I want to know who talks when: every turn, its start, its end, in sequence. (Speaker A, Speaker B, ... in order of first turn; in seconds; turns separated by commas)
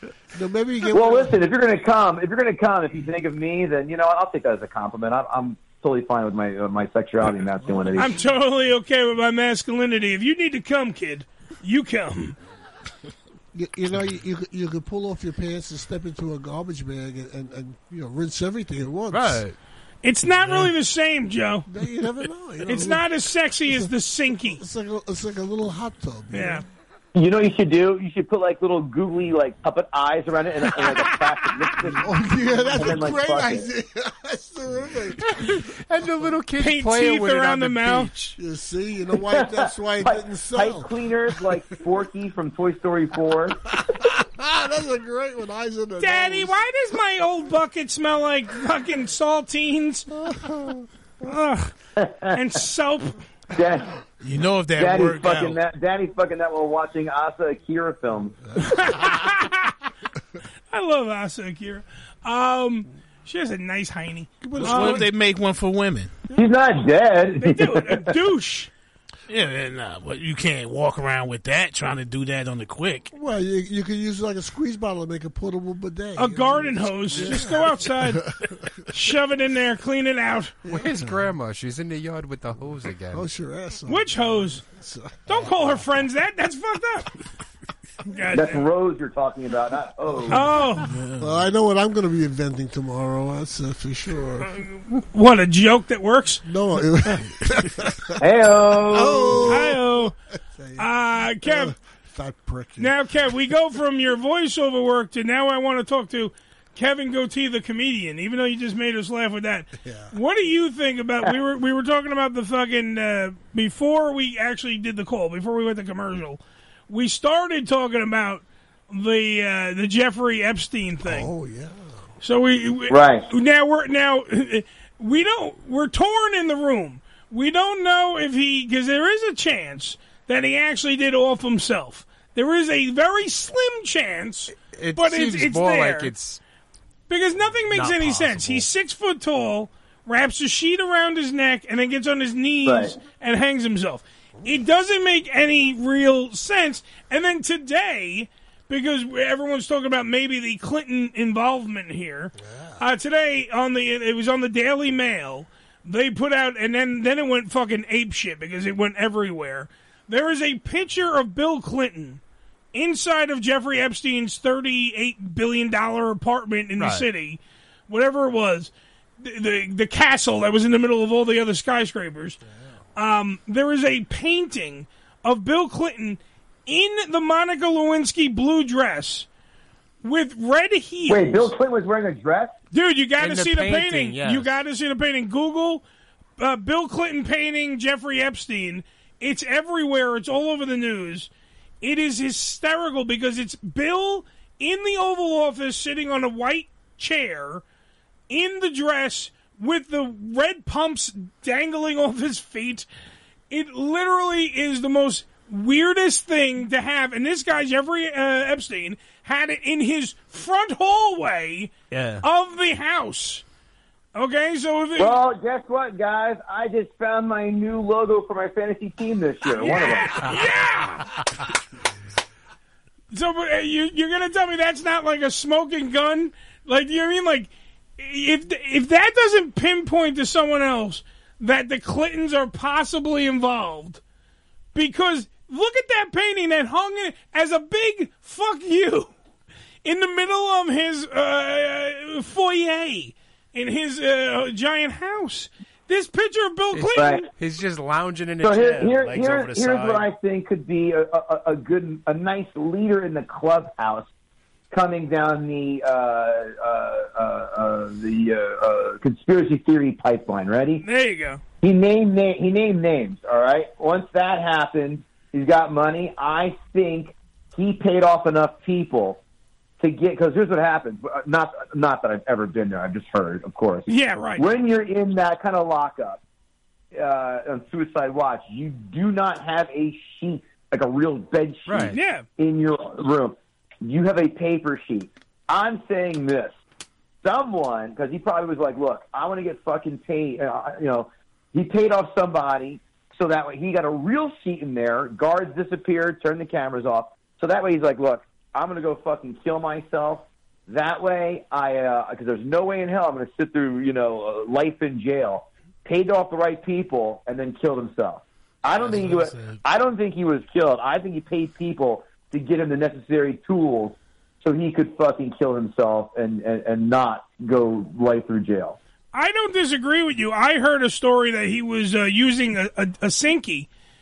Speaker A: 0.3-1.4, Speaker B: 0.9-8.2, Speaker A: 7.6-8.2, Speaker C: 8.0-12.3, Speaker A: 13.5-19.4, Speaker D: 19.1-19.6, Speaker C: 20.0-21.7, Speaker D: 20.4-20.7, Speaker A: 21.7-23.1, Speaker C: 22.6-24.6, Speaker A: 24.4-26.6, Speaker C: 26.3-26.6, Speaker B: 27.1-33.7, Speaker A: 31.8-35.2, Speaker D: 35.2-38.4, Speaker C: 36.6-38.1, Speaker A: 38.4-40.9, Speaker B: 39.3-43.6, Speaker A: 43.8-46.6, Speaker C: 46.0-50.1, Speaker A: 50.1-50.9, Speaker C: 51.2-51.7, Speaker B: 52.0-52.4, Speaker C: 52.3-53.2, Speaker B: 53.5-53.9, Speaker E: 54.2-55.6, Speaker B: 54.8-58.4, Speaker C: 58.6-59.7, Speaker C: 60.7-65.0, Speaker A: 64.4-65.0, Speaker E: 64.6-66.1, Speaker B: 66.3-68.1, Speaker C: 67.3-68.7, Speaker E: 69.3-73.1, Speaker A: 73.1-78.3, Speaker C: 76.2-78.2, Speaker C: 78.9-80.5, Speaker A: 80.6-81.1, Speaker D: 80.7-83.3, Speaker A: 83.1-85.8, Speaker C: 83.9-84.6, Speaker C: 85.3-87.1, Speaker C: 88.0-88.6, Speaker B: 88.3-90.5, Speaker C: 90.3-90.9, Speaker E: 90.8-91.4, Speaker A: 91.2-94.5, Speaker C: 94.5-96.4, Speaker A: 96.4-98.1, Speaker B: 98.2-99.5, Speaker A: 98.9-99.8, Speaker C: 99.5-100.1, Speaker A: 100.5-100.9, Speaker C: 100.8-101.7, Speaker A: 101.4-102.9, Speaker C: 102.8-121.3, Speaker A: 109.8-110.1, Speaker A: 121.0-122.1, Speaker C: 122.2-136.1, Speaker B: 122.9-123.3, Speaker D: 134.7-136.4, Speaker C: 137.1-162.2, Speaker D: 137.7-138.7, Speaker B: 142.6-143.0, Speaker A: 152.4-152.8, Speaker C: 162.7-172.4, Speaker D: 166.8-167.1, Speaker C: 172.9-179.3, Speaker C: 180.0-181.5, Speaker B: 181.1-182.6, Speaker C: 182.7-185.8, Speaker D: 183.2-184.6, Speaker C: 186.4-191.3, Speaker C: 191.8-197.6, Speaker C: 198.3-202.9, Speaker C: 203.5-213.4, Speaker D: 211.9-212.2, Speaker C: 214.1-215.2, Speaker B: 215.0-220.2, Speaker C: 219.5-221.1, Speaker C: 223.1-234.0, Speaker C: 234.7-239.1, Speaker C: 239.8-247.3, Speaker D: 246.7-250.1, Speaker B: 247.0-247.2, Speaker B: 248.4-254.1, Speaker B: 254.7-260.8, Speaker C: 260.8-261.4, Speaker B: 261.6-269.2, Speaker B: 269.8-276.2, Speaker C: 273.9-274.5, Speaker B: 276.9-286.5, Speaker D: 281.7-282.0, Speaker C: 281.9-282.2, Speaker B: 287.2-318.8, Speaker E: 308.7-309.6, Speaker C: 319.1-323.7